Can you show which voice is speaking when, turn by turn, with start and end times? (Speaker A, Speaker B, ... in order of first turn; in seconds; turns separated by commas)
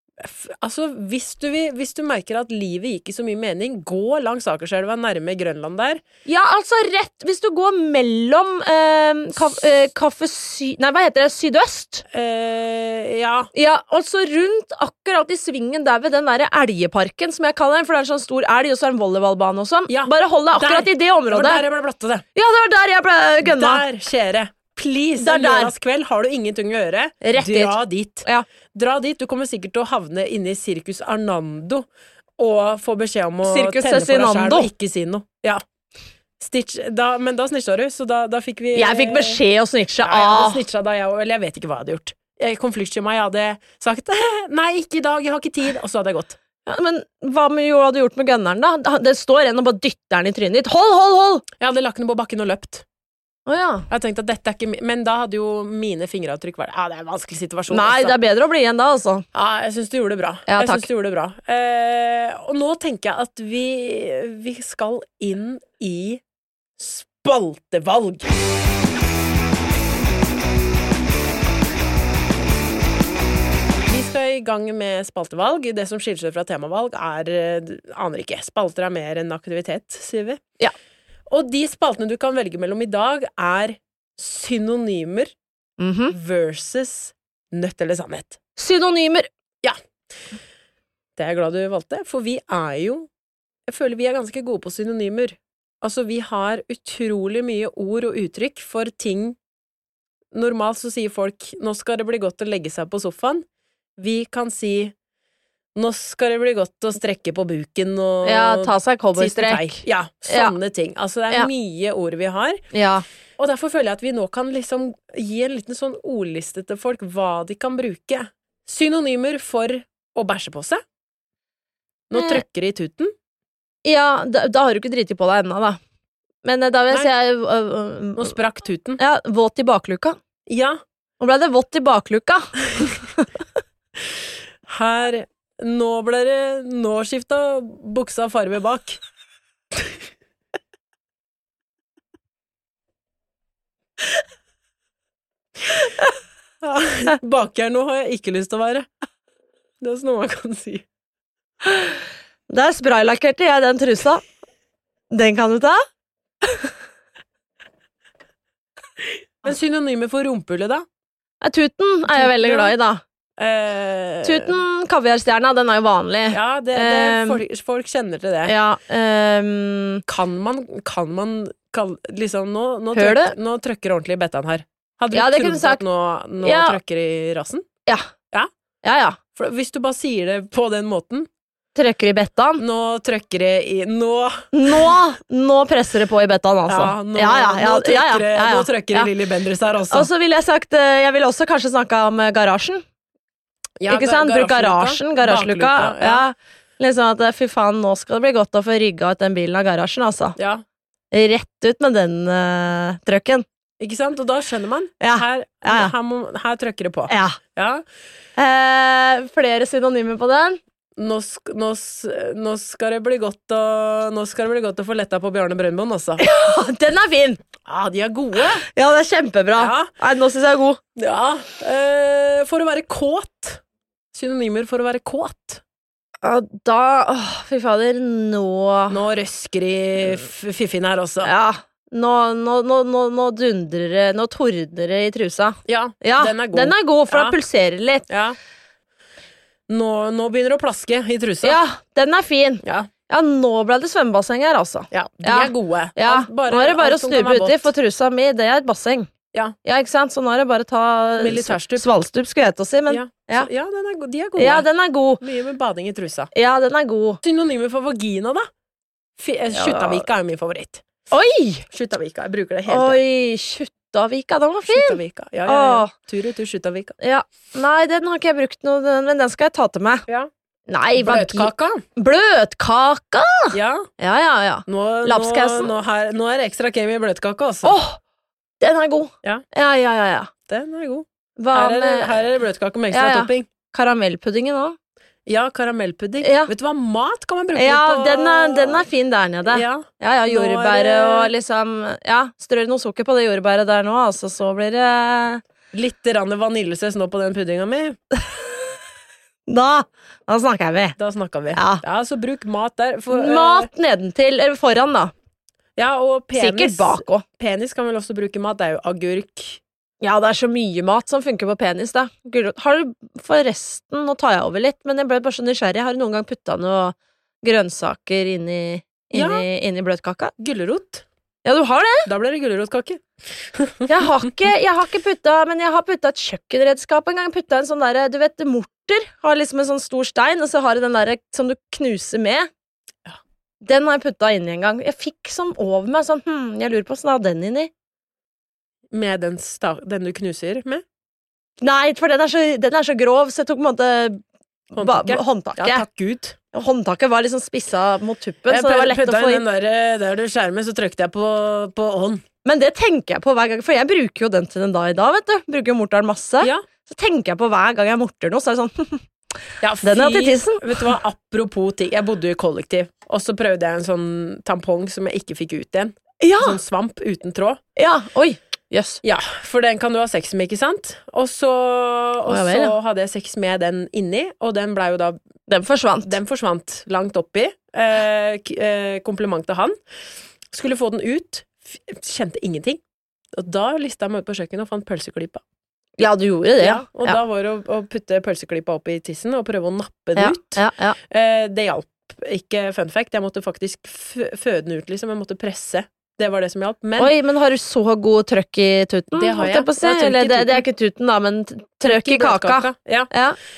Speaker A: 0.2-6.0, Speaker B: 6.3-12.1, Speaker A: 12.1-13.5, Speaker B: 13.5-21.6, Speaker A: 19.9-22.3, Speaker B: 22.4-23.8, Speaker A: 23.4-31.9, Speaker B: 25.2-25.7, Speaker B: 27.2-28.4, Speaker A: 32.4-35.6, Speaker B: 33.4-34.7, Speaker A: 36.4-39.4, Speaker B: 38.8-40.6, Speaker A: 40.0-46.4, Speaker B: 46.7-51.5, Speaker A: 51.6-52.8, Speaker B: 53.5-53.9, Speaker A: 53.9-58.1, Speaker B: 57.7-59.2, Speaker A: 59.3-66.2, Speaker B: 60.5-60.9, Speaker A: 66.8-68.3, Speaker A: 73.9-80.4, Speaker A: 81.3-85.3, Speaker B: 85.8-86.2, Speaker A: 86.1-88.4, Speaker B: 88.6-89.3, Speaker A: 91.2-93.1, Speaker A: 93.7-99.4, Speaker A: 100.3-103.5, Speaker A: 104.0-104.9, Speaker A: 105.8-112.6, Speaker B: 108.2-110.5, Speaker B: 112.7-113.0, Speaker A: 113.4-120.8, Speaker A: 122.1-123.1, Speaker B: 122.1-122.4, Speaker B: 123.8-125.8, Speaker B: 126.4-128.3, Speaker A: 128.2-129.0, Speaker B: 129.0-130.2, Speaker A: 130.5-130.8, Speaker B: 131.2-132.6, Speaker A: 134.7-139.0, Speaker A: 146.6-148.9, Speaker A: 149.8-150.8, Speaker B: 151.7-151.9, Speaker B: 152.5-154.2, Speaker B: 155.1-155.8, Speaker A: 159.0-160.9, Speaker B: 161.4-163.0, Speaker A: 162.1-162.8, Speaker A: 163.4-164.6, Speaker B: 164.2-167.4, Speaker A: 166.3-168.6, Speaker B: 168.4-170.0, Speaker A: 170.1-177.7, Speaker B: 172.9-173.3, Speaker B: 175.1-175.8, Speaker B: 176.4-176.8, Speaker B: 178.8-179.2, Speaker A: 179.3-181.3, Speaker B: 181.8-182.6, Speaker A: 182.6-185.0, Speaker B: 184.5-189.1, Speaker A: 186.7-190.1, Speaker B: 189.9-192.8, Speaker A: 193.8-196.2, Speaker B: 193.9-200.4, Speaker A: 200.4-200.6, Speaker B: 201.1-203.4, Speaker A: 203.8-207.8, Speaker B: 205.0-205.9, Speaker B: 207.1-207.4, Speaker B: 208.4-210.6, Speaker A: 211.0-216.2, Speaker B: 216.2-217.4, Speaker A: 217.7-218.7, Speaker B: 218.7-220.8, Speaker A: 219.6-219.9, Speaker A: 221.0-223.6, Speaker A: 224.1-225.6, Speaker B: 226.2-229.0, Speaker A: 228.9-231.3, Speaker B: 231.2-238.1, Speaker A: 235.7-237.4, Speaker A: 238.1-238.4, Speaker A: 239.7-241.6, Speaker B: 241.4-249.1, Speaker A: 242.6-242.9, Speaker A: 244.9-247.7, Speaker B: 249.7-253.5, Speaker A: 251.2-251.9, Speaker A: 252.9-254.7, Speaker B: 254.4-255.2, Speaker A: 255.2-256.3, Speaker B: 256.3-257.2, Speaker A: 257.2-258.5, Speaker A: 259.2-260.8, Speaker B: 259.5-260.1, Speaker B: 261.1-261.6, Speaker A: 261.7-263.0, Speaker B: 262.7-265.9, Speaker A: 264.7-267.0, Speaker B: 267.0-270.1, Speaker B: 270.7-275.7, Speaker A: 271.0-271.9, Speaker A: 273.5-273.9, Speaker A: 274.7-277.8, Speaker B: 277.6-278.0, Speaker B: 278.6-280.3, Speaker A: 280.5-283.5, Speaker B: 281.4-282.1, Speaker B: 282.9-284.8, Speaker A: 285.3-288.9, Speaker B: 286.2-286.5, Speaker B: 287.6-295.4, Speaker A: 289.5-291.3, Speaker A: 295.7-298.0, Speaker B: 299.5-301.0, Speaker A: 301.0-303.7, Speaker B: 301.5-301.8, Speaker B: 303.1-305.1, Speaker A: 305.8-309.6, Speaker B: 306.4-307.2, Speaker B: 310.0-320.3, Speaker A: 319.1-319.5, Speaker A: 320.4-321.1, Speaker B: 321.4-322.1, Speaker A: 322.1-323.0, Speaker A: 323.6-324.3, Speaker B: 323.9-332.5, Speaker B: 333.6-337.7, Speaker A: 338.9-340.8, Speaker B: 341.6-344.2, Speaker B: 344.8-345.9, Speaker A: 344.8-346.4, Speaker B: 346.5-349.4, Speaker A: 348.5-352.2, Speaker B: 352.4-359.1, Speaker A: 359.6-367.6, Speaker B: 359.8-360.9, Speaker B: 366.2-366.6, Speaker B: 367.8-369.0, Speaker A: 369.0-375.2, Speaker B: 372.3-372.8, Speaker B: 375.5-376.2, Speaker A: 376.0-379.8, Speaker A: 380.5-382.8, Speaker A: 383.3-385.4, Speaker B: 386.0-387.2, Speaker A: 386.6-397.1, Speaker B: 390.2-391.0, Speaker B: 397.0-403.4, Speaker A: 399.1-400.6, Speaker A: 401.8-403.1